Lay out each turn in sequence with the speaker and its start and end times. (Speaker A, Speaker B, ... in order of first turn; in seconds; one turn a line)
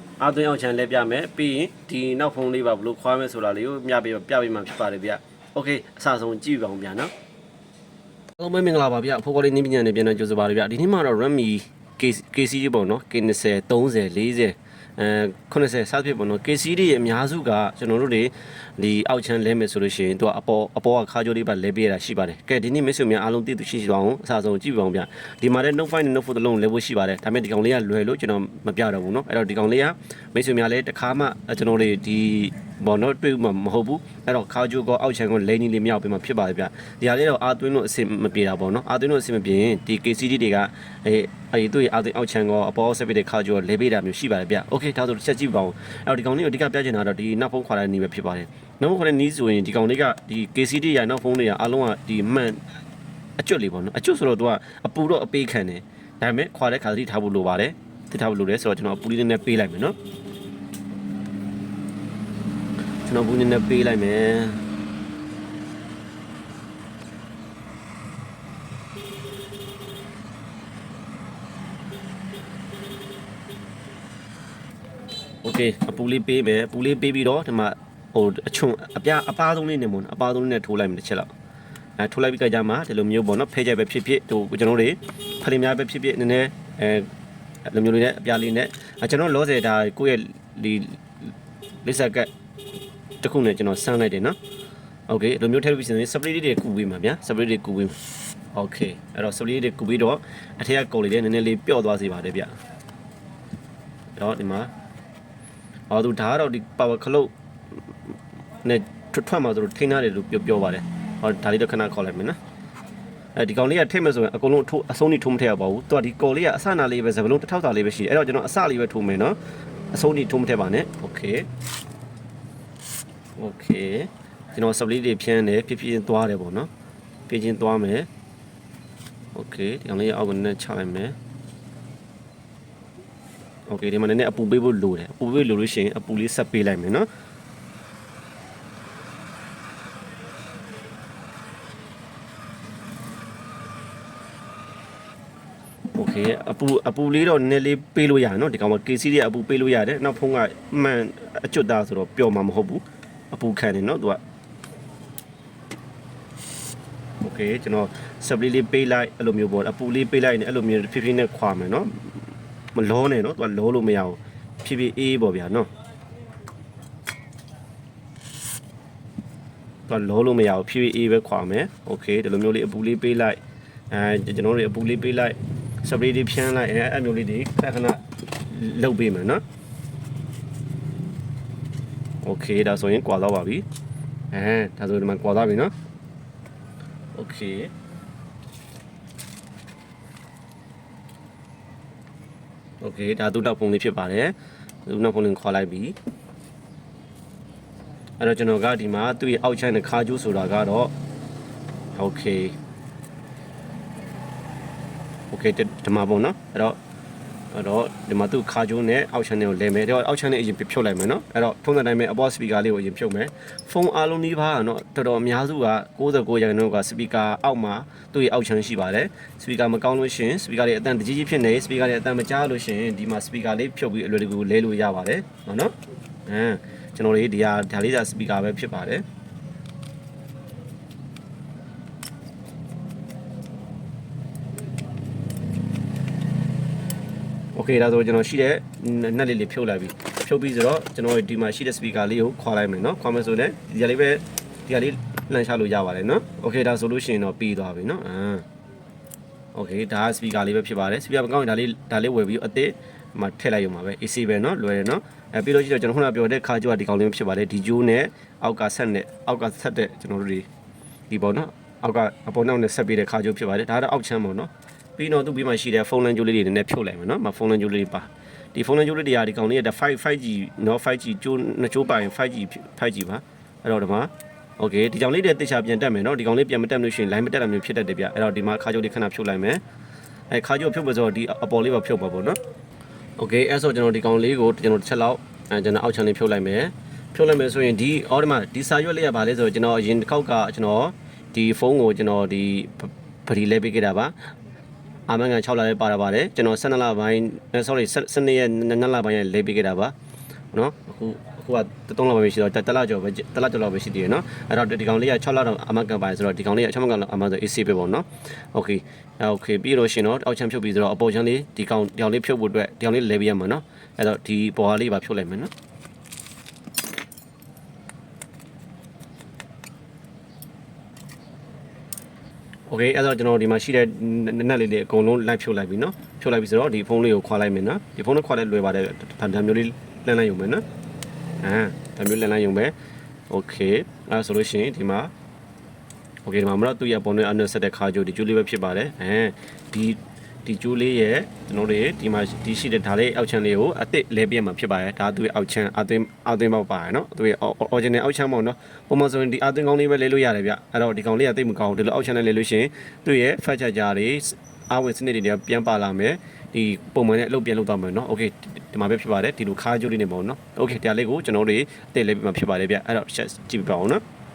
Speaker A: 0.2-7.1
Speaker A: 8.4-52.6
Speaker A: 53.4-60.0
Speaker A: 63.0-64.6
Speaker A: 75.4-81.3
Speaker A: 82.0-87.1
Speaker A: 87.7-91.0
Speaker A: 91.8-92.3
Speaker A: 93.2-94.4
Speaker A: 95.1-98.0
Speaker A: 98.5-102.5
Speaker A: 104.2-104.7
Speaker A: 105.9-107.3
Speaker A: 108.6-112.4
Speaker A: 113.4-119.4
Speaker A: 119.9-121.5
Speaker A: 123.4-126.7
Speaker A: 127.3-128.1
Speaker A: 129.3-131.2
Speaker A: 133.7-137.1
Speaker A: 145.9-154.2
Speaker A: 157.2-162.2
Speaker A: 162.8-165.7
Speaker A: 169.9-173.4
Speaker A: 173.9-179.4
Speaker A: 182.2-183.7
Speaker A: 184.3-185.7
Speaker A: 187.2-187.7
Speaker A: 192.8-196.0
Speaker A: 198.2-200.9
Speaker A: 201.9-202.6
Speaker A: 205.3-206.8
Speaker A: 207.5-225.8
Speaker A: 226.3-229.1
Speaker A: 237.6-248.5
Speaker A: 249.5-260.5
Speaker A: 261.1-279.6
Speaker A: 280.3-282.4
Speaker A: 283.2-294.1
Speaker A: 295.1-299.9
Speaker A: 300.5-315.5
Speaker A: 322.7-330.6
Speaker A: 331.4-332.7
Speaker A: 333.3-335.1
Speaker A: 336.2-364.0